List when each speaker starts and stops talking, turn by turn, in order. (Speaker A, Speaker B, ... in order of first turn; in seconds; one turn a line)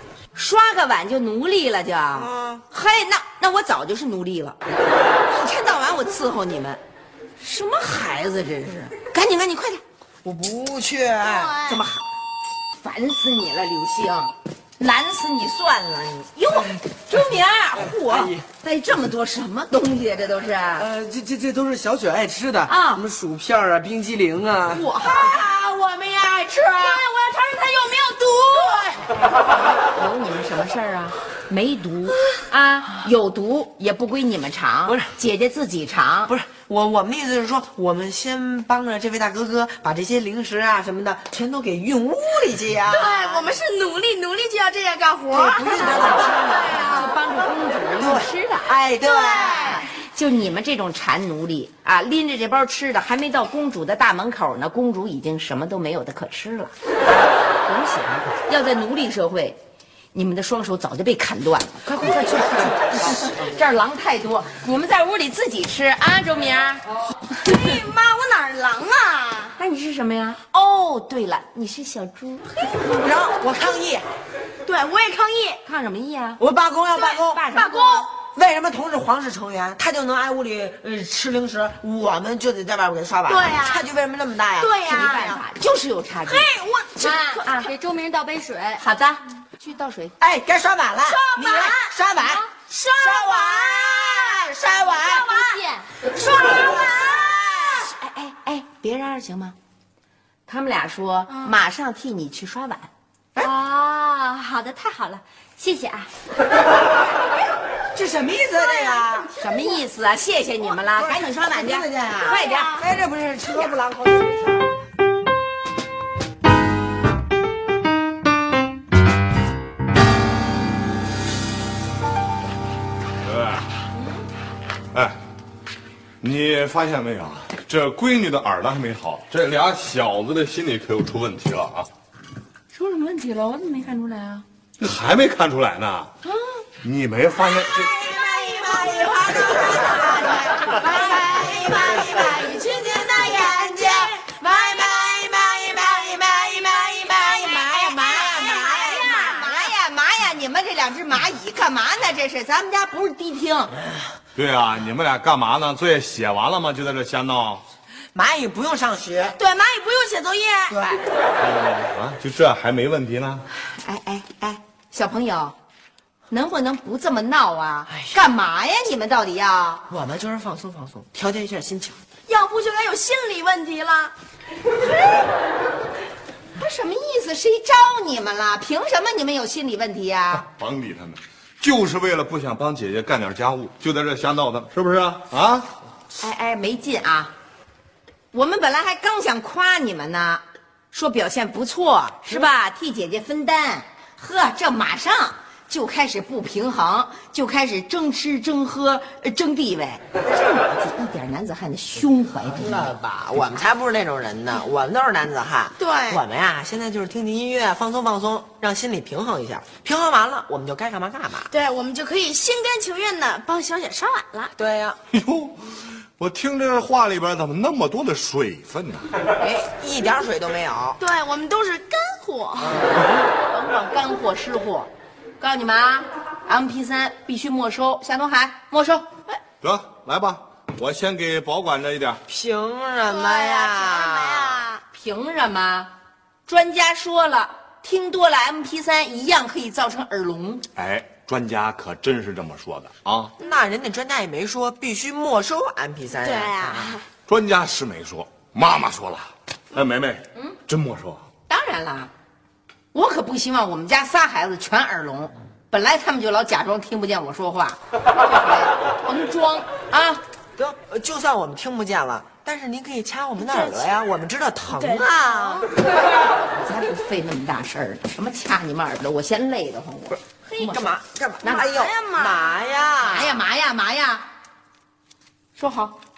Speaker A: 0.3-4.6
Speaker B: 2.1-2.6
Speaker A: 5.2-6.8
Speaker A: 7.4-9.8
Speaker B: 10.2-11.6
Speaker A: 11.6-12.0
Speaker A: 12.8-20.9
Speaker C: 17.8-18.4
Speaker C: 20.8-24.9
Speaker A: 22.6-23.0
Speaker A: 24.7-25.5
Speaker D: 26.8-28.8
Speaker A: 29.7-36.3
Speaker B: 36.3-43.5
Speaker D: 42.9-47.1
Speaker B: 45.3-47.0
Speaker A: 45.4-48.7
Speaker B: 48.0-49.9
Speaker D: 49.0-49.8
Speaker A: 49.5-56.7
Speaker A: 57.7-59.6
Speaker A: 60.1-66.8
Speaker B: 61.9-62.7
Speaker D: 67.4-69.6
Speaker A: 69.6-72.5
Speaker B: 72.7-74.1
Speaker D: 74.6-75.6
Speaker A: 75.6-76.4
Speaker B: 76.4-77.5
Speaker A: 77.3-78.1
Speaker B: 78.2-85.4
Speaker D: 83.4-83.8
Speaker D: 84.6-85.3
Speaker A: 84.9-86.5
Speaker D: 86.2-87.4
Speaker E: 87.0-88.8
Speaker A: 88.8-90.1
Speaker B: 90.2-92.4
Speaker D: 91.3-91.7
Speaker E: 91.3-91.7
Speaker E: 92.7-93.5
Speaker B: 93.0-95.6
Speaker E: 94.8-95.9
Speaker B: 96.2-97.9
Speaker A: 97.8-99.5
Speaker A: 100.5-102.9
Speaker E: 103.4-106.1
Speaker B: 107.9-109.3
Speaker A: 109.4-112.8
Speaker B: 110.9-114.7
Speaker F: 123.2-123.7
Speaker F: 124.9-125.2
Speaker F: 126.2-131.9
Speaker A: 132.7-134.4
Speaker F: 134.8-136.1
Speaker F: 136.8-138.0
Speaker B: 137.5-149.7
Speaker A: 138.6-143.9
Speaker A: 147.6-153.8
Speaker F: 154.3-157.6
Speaker B: 158.1-159.3
Speaker D: 159.4-160.8
Speaker B: 160.7-161.0
Speaker F: 161.4-163.4
Speaker A: 163.7-165.6
Speaker A: 166.3-169.8
Speaker B: 169.9-172.0
Speaker D: 172.3-174.1
Speaker A: 176.5-180.4
Speaker F: 180.3-185.7
Speaker A: 186.2-187.3
Speaker A: 188.3-202.9
Speaker B: 202.4-211.5
Speaker D: 205.8-206.2
Speaker D: 211.5-214.5
Speaker B: 214.6-215.0
Speaker F: 215.1-219.1
Speaker B: 219.4-221.0
Speaker D: 221.0-222.9
Speaker A: 223.5-229.1
Speaker F: 229.6-232.2
Speaker B: 232.3-234.7
Speaker D: 233.1-234.8
Speaker A: 234.9-235.9
Speaker A: 236.5-240.6
Speaker F: 240.8-243.3
Speaker B: 243.4-246.9
Speaker D: 246.2-247.0
Speaker F: 247.3-251.2
Speaker A: 251.5-252.1
Speaker A: 252.9-260.2
Speaker B: 260.6-265.7
Speaker D: 263.4-263.9
Speaker D: 264.7-265.7
Speaker A: 266.6-271.7
Speaker B: 270.4-273.4
Speaker D: 271.4-272.6
Speaker A: 273.0-274.2
Speaker A: 275.6-275.9